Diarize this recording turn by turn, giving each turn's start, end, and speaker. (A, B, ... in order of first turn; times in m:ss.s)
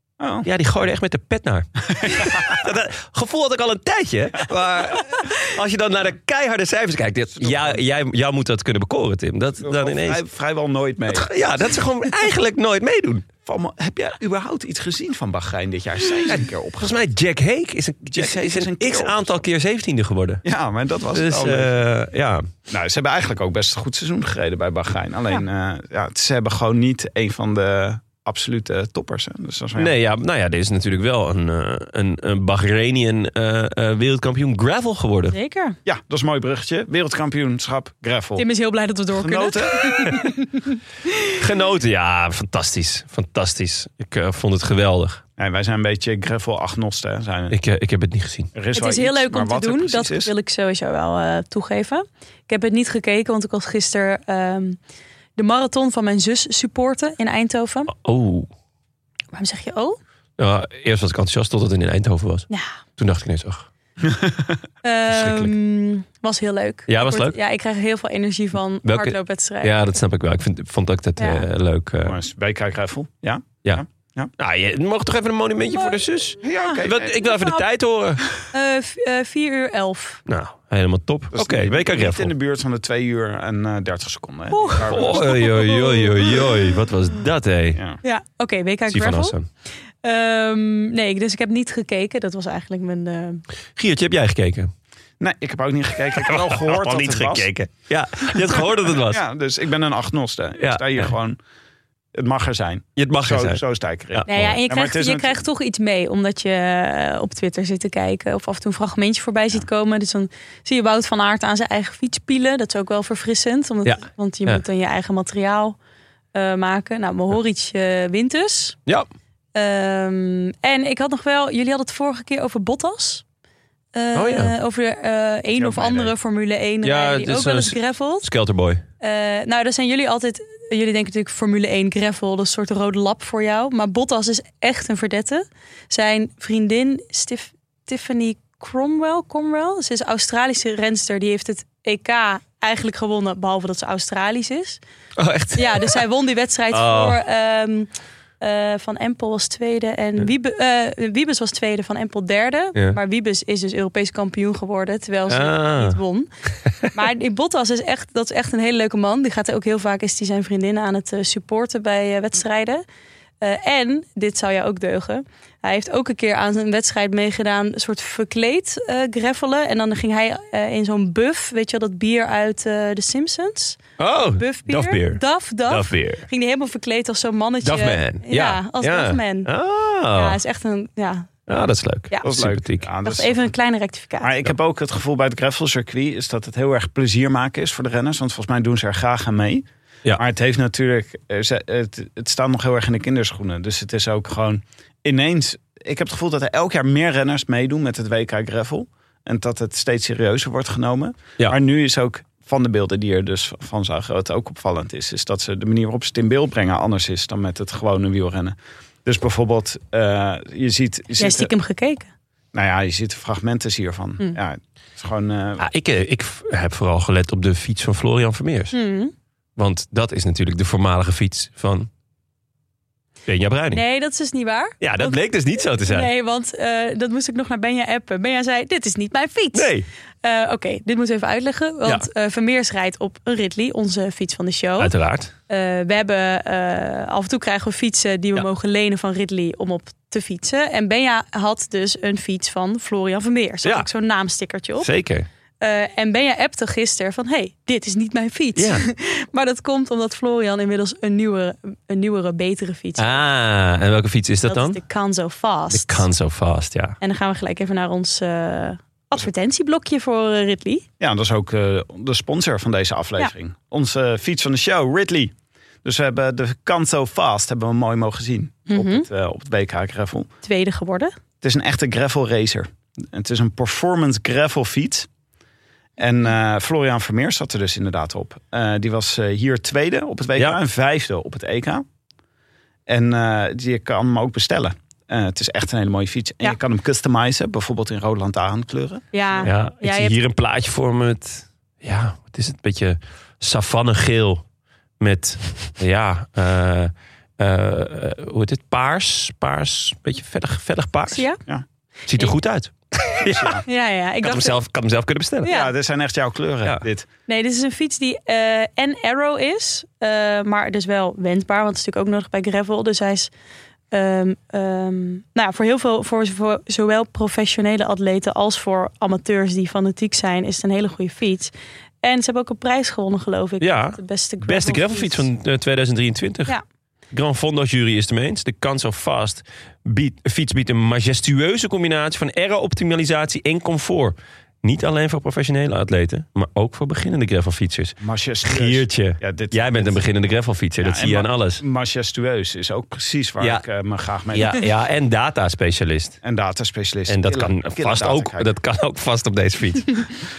0:00.2-0:00.5 A
0:00.4-0:10.2 B
0:02.0-0:02.6 A
0:07.4-0:07.8 A
0:09.6-0:11.3 A
0:11.1-0:13.3 B
0:13.5-0:17.0 A
0:16.3-0:20.4 B
0:18.1-0:19.4 A
0:20.4-0:21.8 A
0:21.1-0:22.5 B
0:22.7-0:29.9 A
0:29.8-0:35.4 B
0:35.3-0:35.8 C
0:35.8-0:38.5 A
0:38.4-0:41.3 C
0:39.1-0:40.2 A
0:41.4-0:45.2 B
0:45.4-0:47.6 A
0:47.5-0:48.5 B
0:48.5-0:50.3 A
0:48.7-0:54.8 C
0:55.4-0:57.9 C
0:57.9-0:58.5 B
0:59.3-1:00.0 C
1:00.4-1:03.7 B
1:04.0-1:04.6 A
1:04.8-1:09.7 C
1:05.1-1:05.5 B
1:06.9-1:07.4 B
1:08.8-1:12.2 B
1:11.2-1:11.4 C
1:12.0-1:14.3 A
1:14.4-1:18.3 B
1:15.7-1:17.6 C
1:16.4-1:17.3 A
1:18.5-1:20.2 C
1:20.3-1:22.3 B
1:21.3-1:25.5 A
1:24.5-1:26.6 C
1:24.9-1:27.8 B
1:27.7-1:28.0 A
1:28.0-1:29.4 C
1:28.9-1:29.5 B
1:30.0-1:33.4 C
1:33.8-1:34.7 B
1:35.2-1:37.5 A
1:36.2-1:39.2 B
1:38.3-1:41.4 A
1:40.6-1:41.1 B
1:42.1-1:45.4 A
1:43.0-1:43.6 B
1:44.2-1:44.6 B
1:44.3-1:55.8 C
1:53.8-1:54.6 B
1:56.4-1:58.8 C
1:59.6-2:03.2 C
2:04.0-2:08.3 C
2:04.2-2:04.5 B
2:05.6-2:06.1 A
2:06.8-2:08.8 B
2:09.0-2:24.8 C
2:25.2-2:26.0 B
2:25.6-2:27.9 C
2:26.7-2:27.2 B
2:28.4-2:36.3 C
2:35.3-2:36.0 B
2:36.9-2:42.8 C
2:43.4-2:53.8 C
2:54.0-2:56.3 B
2:54.4-2:59.5 C
2:57.6-3:00.4 B
3:00.2-3:01.3 C
3:01.5-3:02.9 B
3:02.2-3:03.5 A
3:03.0-3:04.3 C
3:04.2-3:31.5 A
3:31.2-3:32.1 C
3:32.5-3:35.6 A
3:35.6-3:38.8 B
3:38.7-3:39.1 C
3:39.6-3:41.9 B
3:43.3-3:43.8 B
3:43.7-3:49.7 C
3:44.8-3:46.1 B
3:49.5-3:49.9 B
3:50.2-3:54.9 C
3:54.8-3:55.3 B
3:55.5-4:04.9 C
4:04.8-4:05.3 B
4:05.6-4:13.2 C
4:08.6-4:08.8 B
4:13.0-4:14.8 B
4:14.5-4:16.0 C
4:15.7-4:17.0 B
4:17.0-4:20.9 C
4:21.0-4:30.3 A
4:28.7-4:29.1 C
4:30.4-4:31.1 C
4:31.4-4:35.1 A
4:36.0-4:41.8 A
4:42.9-4:49.5 A
4:49.1-4:50.2 C
4:49.4-4:54.4 B
4:55.0-5:01.2 B
5:01.1-5:01.4 C
5:02.1-5:03.6 B
5:03.3-5:03.6 A
5:03.6-5:04.6 C
5:04.2-5:05.5 B
5:05.4-5:05.7 C
5:05.5-5:07.1 A
5:07.3-5:13.3 C
5:13.9-5:21.5 C
5:22.0-5:25.2 C
5:23.6-5:26.6 B
5:27.1-5:41.6 B
5:38.0-5:40.0 A
5:40.8-5:44.6 A
5:44.3-5:46.2 B
5:46.2-5:48.5 A
5:47.1-5:50.1 B